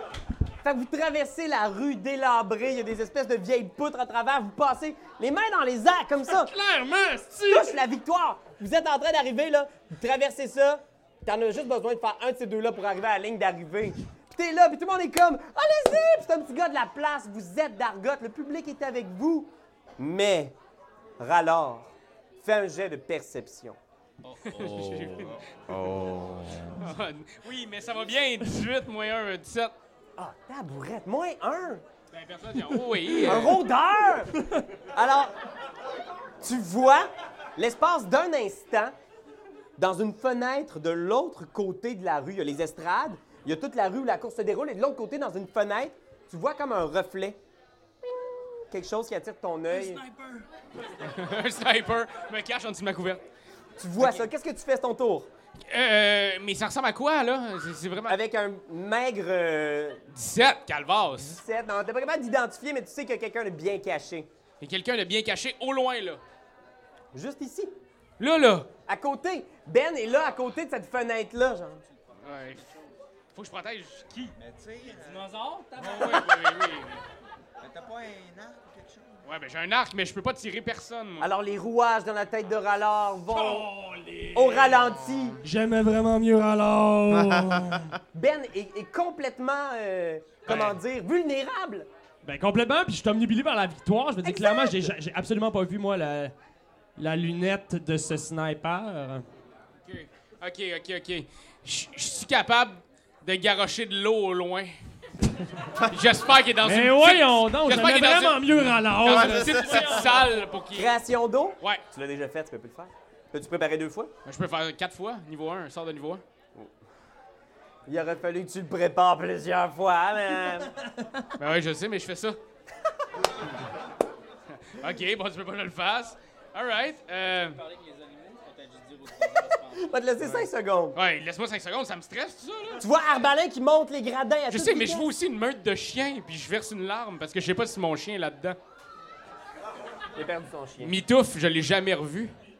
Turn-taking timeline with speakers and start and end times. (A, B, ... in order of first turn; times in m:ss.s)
0:00.6-0:06.5 A
0:06.3-0:07.8 B
0:07.5-0:20.6 A
0:21.2-0:23.8 A
0:24.2-0:25.3 C
0:24.4-0:25.4 D
0:25.7-0:27.0 E
0:26.8-0:29.7 D
0:30.2-0:31.8 A
0:32.1-0:33.6 D
0:33.2-0:34.3 A
0:34.9-0:35.3 A
0:36.4-0:38.9 A
0:39.8-0:47.4 A
0:48.0-0:50.0 A
0:49.8-0:50.4 C
0:51.0-0:53.2 D
0:53.8-0:55.3 A
0:54.0-0:54.2 D
0:55.7-0:58.2 D
0:58.1-1:00.0 A
1:00.1-1:01.4 D
1:01.2-1:04.3 A
1:04.6-1:06.2 D
1:07.1-1:07.7 A
1:08.2-1:08.7 D
1:08.9-1:11.8 A
1:12.2-1:12.7 D
1:13.3-1:14.3 D
1:14.4-1:15.2 E
1:14.9-1:16.3 C
1:15.8-1:17.0 D
1:17.6-1:19.2 E
1:19.2-1:21.3 D
1:21.2-1:23.7 A
1:23.3-1:24.6 C
1:24.3-1:25.4 A
1:24.7-1:25.4 E
1:25.4-1:27.9 B
1:27.1-1:28.0 E
1:28.1-1:31.9 A
1:30.4-1:30.8 D
1:32.2-1:36.3 B
1:34.2-1:34.9 A
1:37.0-1:39.2 B
1:39.8-1:44.7 D
1:45.8-1:48.4 D
1:46.6-1:50.1 B
1:49.0-1:50.9 D
1:49.0-1:50.2 E
1:50.7-1:54.1 A
1:54.2-1:56.2 D
1:57.9-2:00.7 A
2:01.4-2:02.4 D
2:04.6-2:07.6 D
2:07.5-2:09.9 C
2:09.7-2:11.0 A
2:10.9-2:12.8 D
2:12.8-2:15.1 A
2:14.5-2:18.6 D
2:20.2-2:21.0 A
2:20.8-2:22.3 D